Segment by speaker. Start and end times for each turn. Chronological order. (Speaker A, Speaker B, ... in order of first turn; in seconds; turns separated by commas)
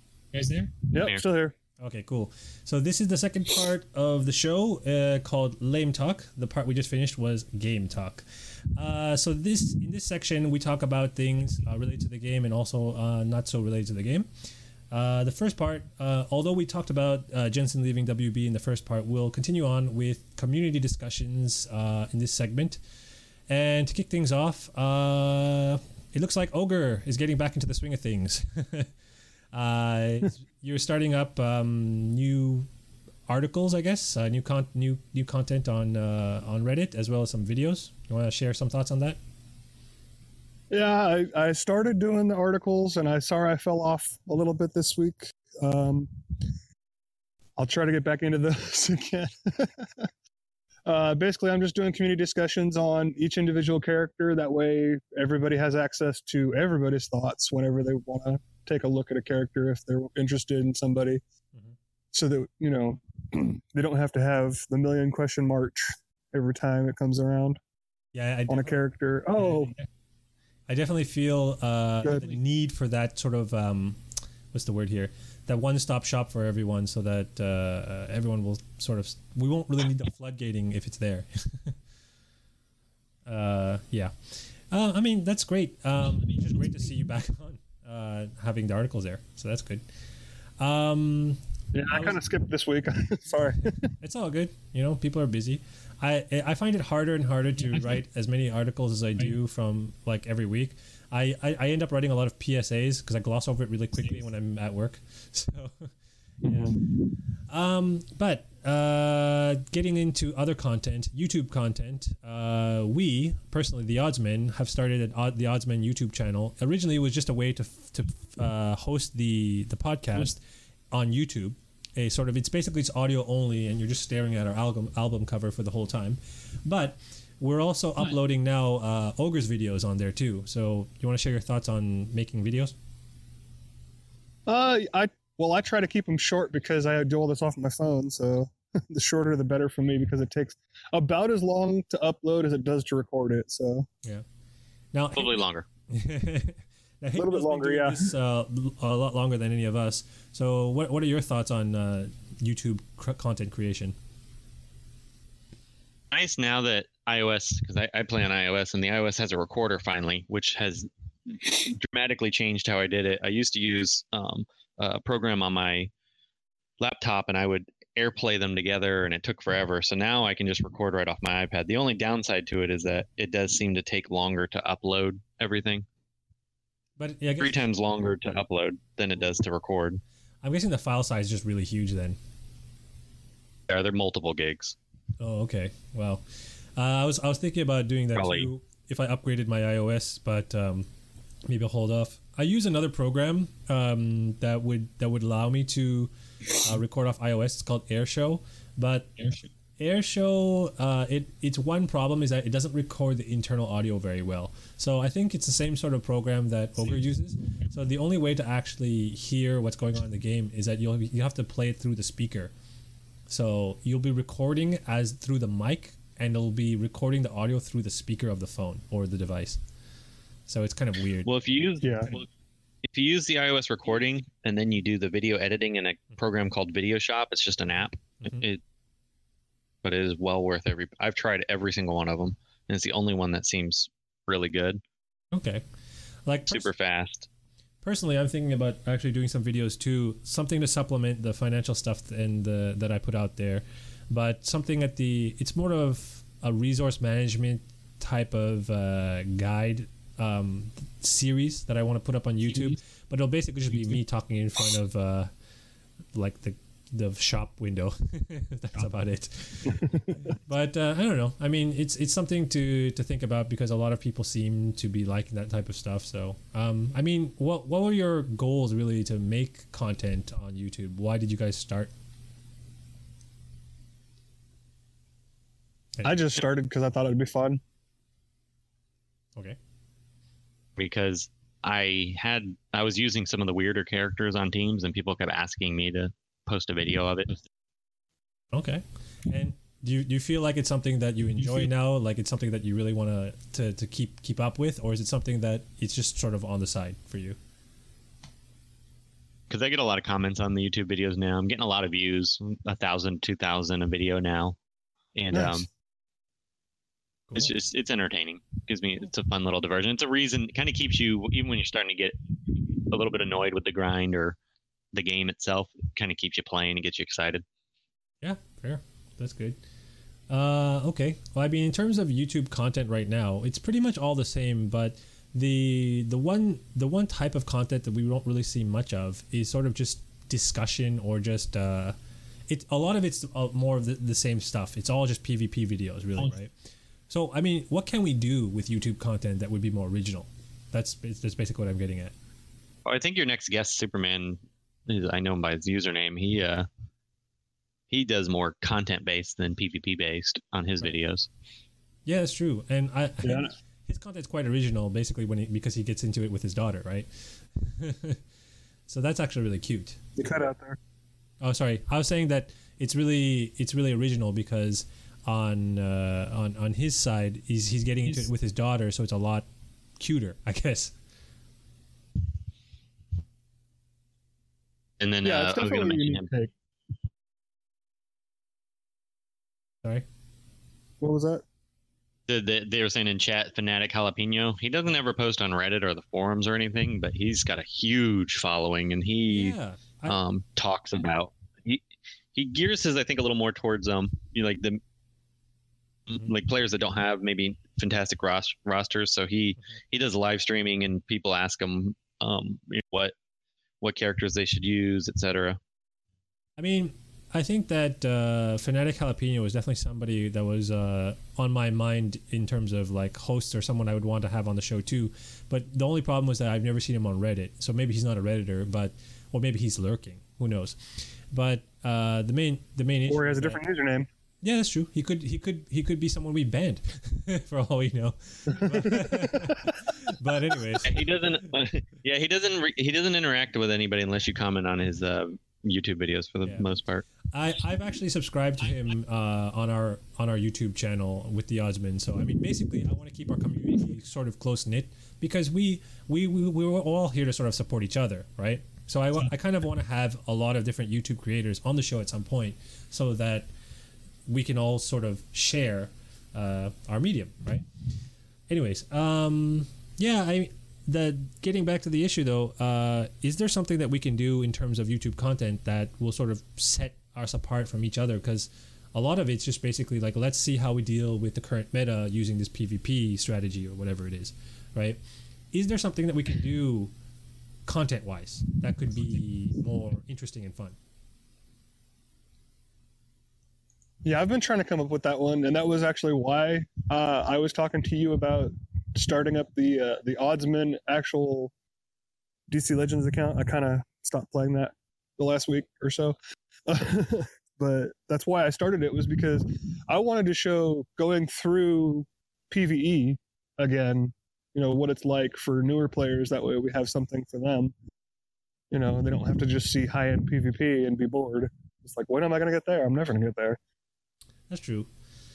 Speaker A: 0.3-0.9, Speaker B: 0.9-1.6, Speaker C: 1.8-14.3, Speaker C: 14.9-22.8, Speaker C: 23.5-28.9, Speaker C: 29.5-32.7, Speaker C: 33.3-39.2, Speaker B: 40.7-46.5, Speaker B: 47.6-50.1, Speaker B: 50.9-61.2, Speaker B: 62.1-67.6, Speaker C: 68.1-68.8, Speaker B: 68.5-69.8, Speaker A: 69.4-69.9, Speaker C: 70.7-74.0, Speaker C: 74.5-81.8, Speaker C: 83.3-89.8, Speaker A: 86.2-86.9, Speaker C: 90.6-92.2, Speaker B: 91.7-93.9, Speaker C: 94.0-105.9, Speaker A: 97.6-98.0, Speaker B: 106.4-106.8, Speaker C: 106.5-106.8, Speaker C: 107.5-120.4, Speaker C: 120.9-132.8, Speaker B: 134.5-143.9, Speaker C: 144.9-153.9, Speaker D: 145.2-145.7, Speaker B: 147.2-148.2, Speaker D: 156.1-165.9, Speaker D: 166.8-175.9, Speaker C: 177.0-177.7, Speaker D: 177.4-180.0, Speaker C: 180.4-182.2, Speaker D: 183.7-184.8, Speaker C: 185.2-186.2, Speaker C: 186.8-190.9, Speaker D: 188.2-188.5, Speaker C: 191.4-199.1, Speaker A: 199.2-199.5, Speaker C: 199.8-212.5, Speaker A: 206.8-207.7, Speaker C: 213.3-219.6, Speaker C: 220.5-221.5, Speaker D: 221.2-222.3, Speaker B: 221.8-222.1, Speaker D: 222.8-228.6, Speaker D: 229.8-234.8, Speaker C: 235.3-235.6, Speaker C: 236.3-236.7, Speaker D: 236.5-237.3, Speaker C: 237.8-255.3, Speaker A: 252.5-252.8, Speaker C: 256.1-271.9, Speaker B: 259.7-260.1, Speaker B: 276.0-277.6, Speaker D: 280.8-287.4, Speaker C: 288.5-297.4, Speaker D: 299.5-304.6, Speaker D: 305.1-305.7, Speaker B: 305.3-305.7, Speaker D: 307.3-314.4, Speaker D: 314.9-317.4, Speaker C: 318.2-319.6, Speaker C: 320.3-332.0, Speaker C: 332.5-336.5, Speaker C: 337.1-342.1, Speaker D: 342.9-346.7, Speaker D: 347.9-351.3, Speaker C: 352.1-358.2, Speaker B: 353.2-353.5, Speaker C: 358.9-360.0, Speaker B: 360.2-360.8, Speaker C: 361.4-369.5, Speaker C: 370.0-370.9, Speaker D: 375.0-376.3, Speaker B: 375.2-376.5, Speaker B: 381.0-381.4, Speaker D: 382.3-391.8, Speaker C: 389.3-390.2, Speaker D: 392.3-394.8, Speaker D: 396.1-403.1, Speaker D: 403.8-405.6, Speaker C: 406.6-423.6, Speaker B: 423.1-424.1, Speaker C: 424.4-431.0, Speaker B: 428.6-429.5, Speaker D: 430.8-437.1, Speaker C: 437.3-453.5, Speaker C: 454.3-457.7, Speaker C: 458.5-475.0, Speaker C: 475.5-476.9, Speaker C: 477.7-480.8, Speaker B: 484.0-491.5, Speaker B: 492.5-496.2, Speaker B: 496.7-507.7, Speaker B: 508.7-513.6, Speaker C: 514.5-514.9